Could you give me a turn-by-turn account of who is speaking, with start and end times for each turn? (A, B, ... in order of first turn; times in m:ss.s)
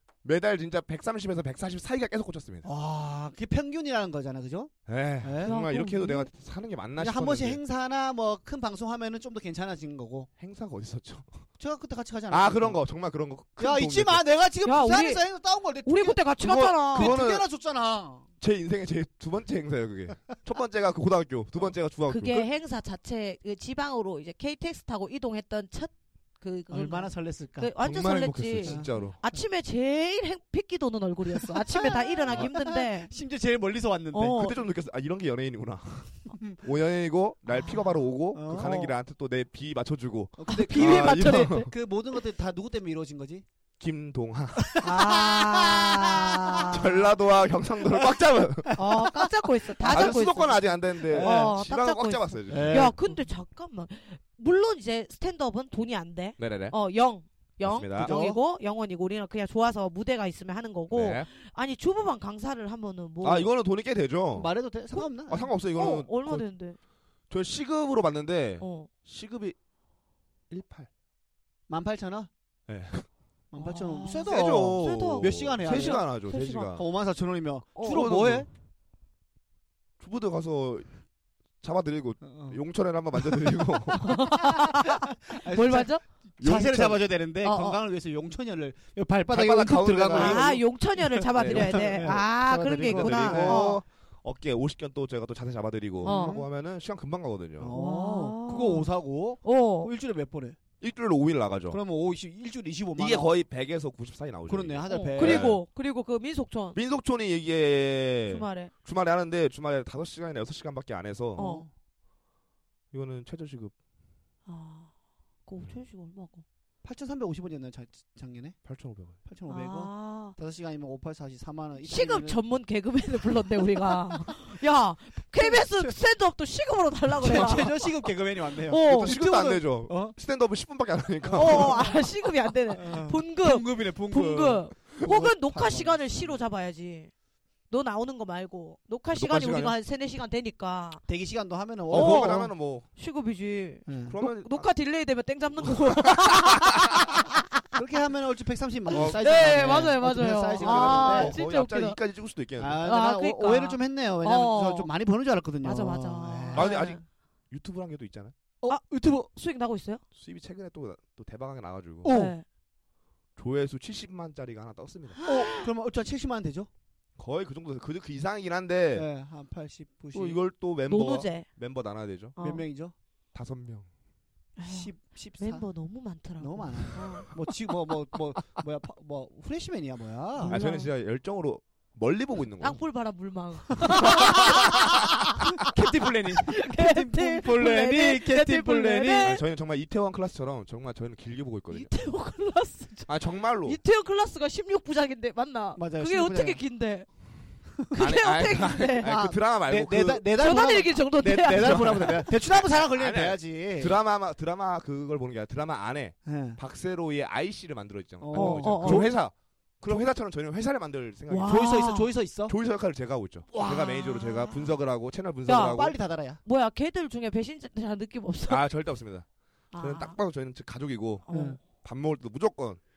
0:00.2-0:02.7 A
0:02.6-0:05.6 B
0:04.9-0:07.6 A
0:05.4-0:06.3 C
0:07.0-0:10.3 B
0:10.4-0:11.4 A
0:11.6-0:12.8 B
0:12.3-0:14.2 A
0:13.6-0:16.2 B
0:14.6-0:15.2 C
0:15.8-0:17.2 C
0:16.4-0:17.4 A
0:16.9-0:18.3 B
0:18.4-0:22.5 A
0:22.1-0:33.1 C
0:26.7-0:27.7 B
0:27.8-0:29.2 A
0:28.6-0:28.9 B
0:31.3-0:34.4 B
0:34.1-0:34.6 C
0:34.3-0:41.7 A
0:36.3-0:36.6 B
0:38.3-0:38.9 B
0:40.4-0:43.4 B
0:40.5-0:41.7 C
0:43.8-0:44.8 A
0:44.6-0:46.6 B
0:44.8-0:47.1 C
0:46.6-0:48.7 A
0:47.9-0:50.2 B
0:48.8-1:03.5 C
0:49.8-0:52.9 A
0:51.0-0:51.5 B
0:52.5-0:53.0 B
0:56.4-0:56.8 A
0:57.6-0:58.2 A
0:58.0-0:58.4 B
1:00.9-1:01.3 A
1:03.2-1:04.5 A
1:04.3-1:05.5 B
1:04.9-1:06.8 C
1:05.3-1:06.5 A
1:07.3-1:09.6 A
1:08.6-1:08.9 C
1:10.5-1:10.9 A
1:11.7-1:12.3 B
1:12.7-1:13.1 A
1:13.5-1:16.1 B
1:13.6-1:16.8 C
1:14.2-1:16.8 A
1:16.7-1:18.5 B
1:17.8-1:18.1 C
1:17.8-1:18.5 A
1:20.0-1:20.9 A
1:21.6-1:24.2 A
1:22.2-1:22.6 B
1:23.2-1:30.6 B
1:24.0-1:26.0 C
1:26.4-1:27.0 A
1:27.4-1:27.8 C
1:29.3-1:30.6 A
1:30.1-1:33.8 C
1:31.1-1:33.8 B
1:31.3-1:32.2 A
1:32.8-1:37.8 A
1:36.0-1:36.5 B
1:36.0-1:36.4 C
1:37.6-1:40.6 B
1:37.7-1:38.9 C
1:39.4-1:39.9 C
1:40.8-1:41.8 A
1:41.7-1:43.3 B
1:43.0-1:45.6 A
1:44.5-1:45.5 B
1:44.9-1:46.8 C
1:46.8-1:51.5 A
1:48.3-1:48.7 C
1:51.4-1:51.7 C
1:51.4-1:51.7 B
1:52.9-1:53.7 A
1:54.5-1:54.9 C
1:55.5-1:56.4 C
1:56.8-1:58.6 B
1:58.7-1:59.2 A
1:59.3-2:02.4 B
1:59.5-2:00.4 C
2:01.8-2:08.0 C
2:03.2-2:04.5 B
2:05.4-2:06.0 B
2:07.2-2:10.2 B
2:07.3-2:07.6 A
2:08.7-2:09.2 C
2:08.9-2:11.9 A
2:11.3-2:12.0 B
2:11.3-2:17.1 C
2:12.8-2:16.4 B
2:17.7-2:21.0 C
2:19.1-2:19.8 A
2:21.1-2:22.5 B
2:21.9-2:22.9 A
2:21.9-2:27.4 C
2:23.9-2:24.2 B
2:24.1-2:24.7 A
2:25.6-2:27.0 A
2:27.7-2:31.4 B
2:28.9-2:32.0 C
2:28.9-2:29.3 A
2:30.6-2:32.8 A
2:32.6-2:36.7 B
2:32.8-2:34.9 C
2:35.6-2:37.0 C
2:36.5-2:38.3 A
2:38.6-2:40.0 C
2:40.2-2:42.2 A
2:42.0-2:42.4 B
2:42.0-2:42.4 C
2:43.4-2:45.2 A
2:45.2-2:45.7 C
2:45.2-2:46.7 B
2:47.2-2:49.1 A
2:48.9-2:50.4 B
2:50.1-2:52.4 A
2:50.9-2:51.5 C
2:52.4-2:52.6 C
2:52.4-2:52.9 B
2:53.4-2:53.9 A
2:54.6-2:57.3 C
2:54.7-2:55.7 B
2:56.4-3:00.6 B
3:00.4-3:00.9 C
3:00.4-3:02.8 A
3:02.6-3:05.7 C
3:03.8-3:09.3 B
3:04.0-3:05.2 A
3:06.3-3:09.4 C
3:09.2-3:11.9 A
3:11.7-3:17.1 C
3:13.1-3:13.8 A
3:15.8-3:16.6 B
3:17.9-3:19.1 C
3:18.0-3:20.3 A
3:19.0-3:24.0 B
3:20.4-3:22.3 C
3:21.6-3:31.7 A
3:26.2-3:26.6 B
3:28.2-3:29.2 B
3:28.3-3:29.1 C
3:31.3-3:32.1 C
3:31.4-3:32.6 B
3:32.5-3:36.0 A
3:33.5-3:34.8 C
3:35.5-3:35.8 C
3:35.7-3:36.4 B
3:36.4-3:38.6 C
3:38.5-3:39.3 A
3:39.7-3:40.2 C
3:39.8-3:41.2 A
3:41.3-3:41.6 C
3:41.3-3:41.6 B
3:41.8-3:42.8 A